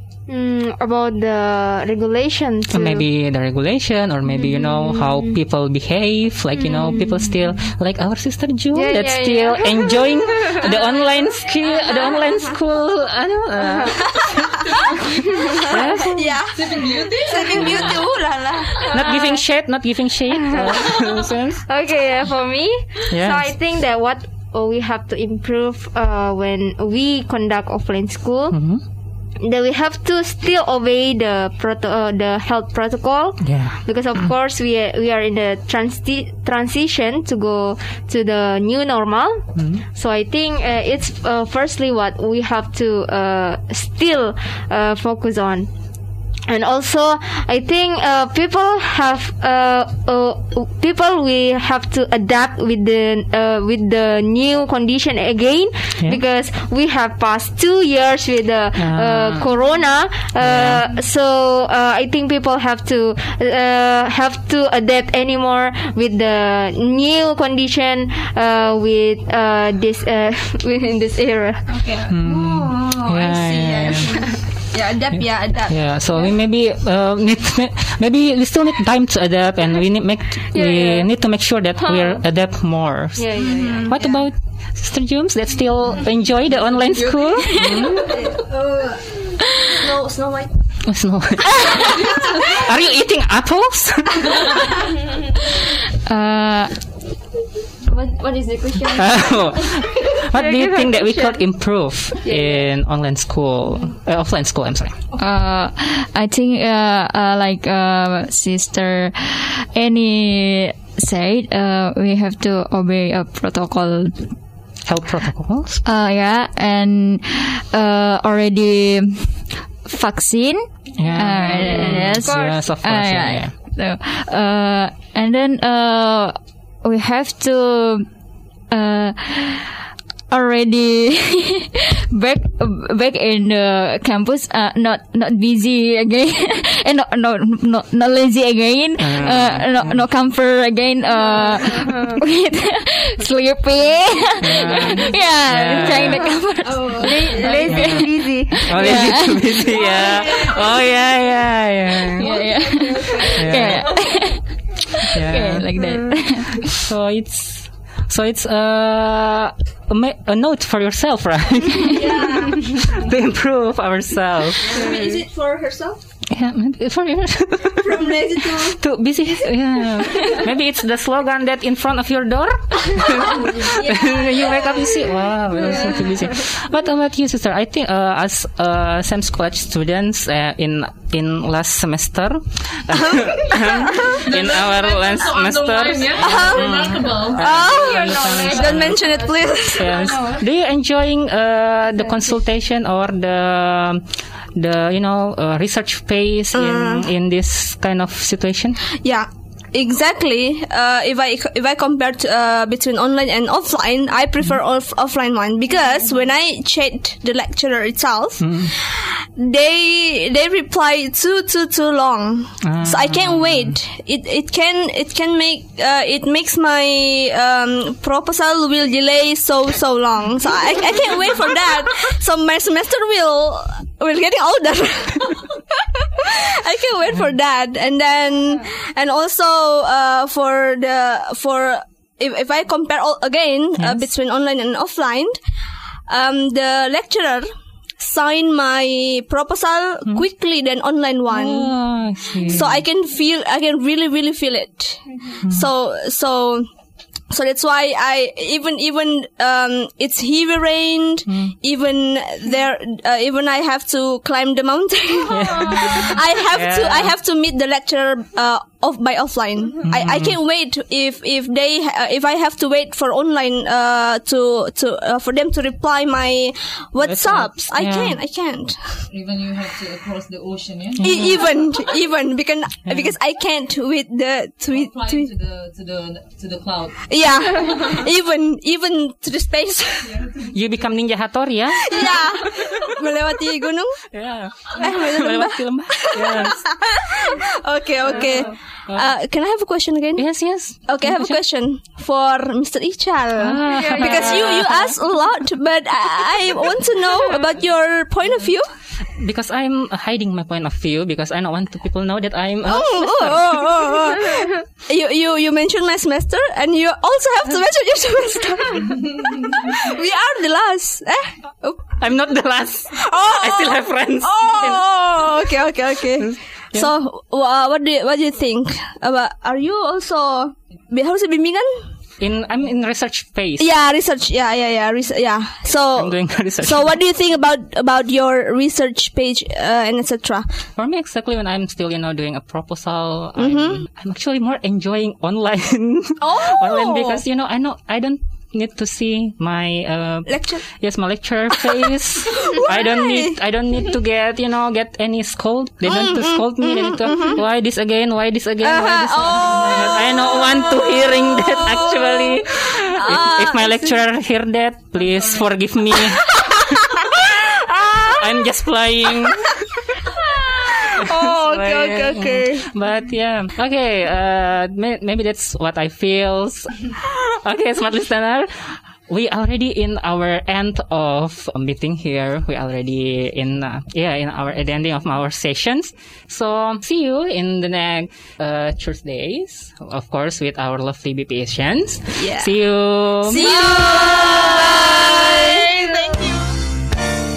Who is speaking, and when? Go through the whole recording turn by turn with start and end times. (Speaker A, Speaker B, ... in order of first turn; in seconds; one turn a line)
Speaker A: 0.3-3.0
Speaker B: 2.7-16.3
Speaker A: 4.4-5.3
Speaker A: 6.7-7.0
Speaker A: 8.7-10.9
Speaker A: 11.8-12.2
Speaker C: 14.1-19.1
Speaker D: 16.5-18.1
Speaker A: 18.8-19.3
Speaker B: 18.9-21.6
Speaker A: 20.4-21.1
Speaker A: 21.7-28.6
Speaker B: 23.1-23.5
Speaker B: 28.5-28.8
Speaker A: 29.4-45.7
Speaker B: 33.4-33.8
Speaker B: 39.6-39.8
Speaker A: 46.5-71.8
Speaker B: 58.8-59.5
Speaker B: 60.4-60.8
Speaker C: 71.7-76.3
Speaker B: 72.1-74.2
Speaker B: 75.1-88.2
Speaker A: 80.5-81.1
Speaker A: 81.8-82.2
Speaker A: 83.2-83.9
Speaker C: 83.4-84.1
Speaker C: 87.9-90.5
Speaker B: 90.8-94.9
Speaker C: 91.7-92.6
Speaker E: 95.9-96.8
Speaker E: 97.8-99.9
Speaker B: 98.8-105.0
Speaker E: 100.5-101.0
Speaker A: 100.5-101.2
Speaker E: 105.2-114.3
Speaker B: 114.8-115.8
Speaker E: 115.8-128.1
Speaker B: 121.0-123.5
Speaker E: 128.7-129.8
Speaker E: 130.3-150.0
Speaker B: 139.0-140.0
Speaker A: 141.7-142.2
Speaker B: 144.4-146.4
Speaker C: 146.6-147.6
Speaker A: 146.9-149.0
Speaker B: 147.5-152.3
Speaker C: 149.8-150.7
Speaker E: 152.2-156.8
Speaker C: 152.2-153.6
Speaker B: 153.2-154.0
Speaker B: 155.1-155.7
Speaker B: 156.6-165.0
Speaker C: 161.9-163.0
Speaker C: 164.6-166.0
Speaker B: 166.3-189.1
Speaker C: 167.7-168.8
Speaker C: 173.4-176.4
Speaker C: 182.9-184.2
Speaker D: 184.2-188.9
Speaker C: 186.2-190.0
Speaker A: 187.9-188.5
Speaker B: 189.7-198.8
Speaker C: 196.5-197.1
Speaker C: 199.0-235.4
Speaker B: 208.4-208.7
Speaker B: 212.6-213.8
Speaker B: 233.8-234.1
Speaker C: 236.1-237.5
Speaker C: 238.0-241.7
Speaker B: 241.2-242.8
Speaker C: 242.4-246.7
Speaker B: 245.4-245.7
Speaker C: 247.3-269.0
Speaker B: 251.2-251.5
Speaker B: 255.3-257.1
Speaker B: 259.8-260.4
Speaker B: 267.0-268.2
Speaker D: 269.1-271.1
Speaker B: 270.9-271.4
Speaker C: 271.0-275.3
Speaker B: 272.9-273.1
Speaker D: 274.7-277.0
Speaker C: 277.1-280.2
Speaker D: 280.1-280.5
Speaker B: 280.5-282.6
Speaker C: 281.8-284.0
Speaker B: 284.1-286.6
Speaker C: 284.7-290.2
Speaker B: 288.1-289.1
Speaker B: 290.1-291.4
Speaker C: 290.9-298.7
Speaker B: 293.4-294.9
Speaker A: 293.7-294.5
Speaker B: 299.1-304.0
Speaker C: 302.6-311.9
Speaker B: 312.0-314.8
Speaker C: 312.9-321.8
Speaker B: 316.2-316.9
Speaker B: 322.2-323.7
Speaker C: 323.6-330.5
Speaker B: 325.9-327.0
Speaker B: 330.8-359.6
Speaker C: 333.4-333.8
Speaker C: 336.2-337.2
Speaker C: 340.3-340.6
Speaker C: 342.3-343.3
Speaker C: 345.8-347.4
Speaker C: 348.6-354.0
Speaker C: 356.5-357.2
Speaker C: 357.9-358.2
Speaker C: 360.2-362.7
Speaker B: 360.7-384.0
Speaker C: 382.2-382.5
Speaker C: 383.2-385.6
Speaker D: 383.8-386.4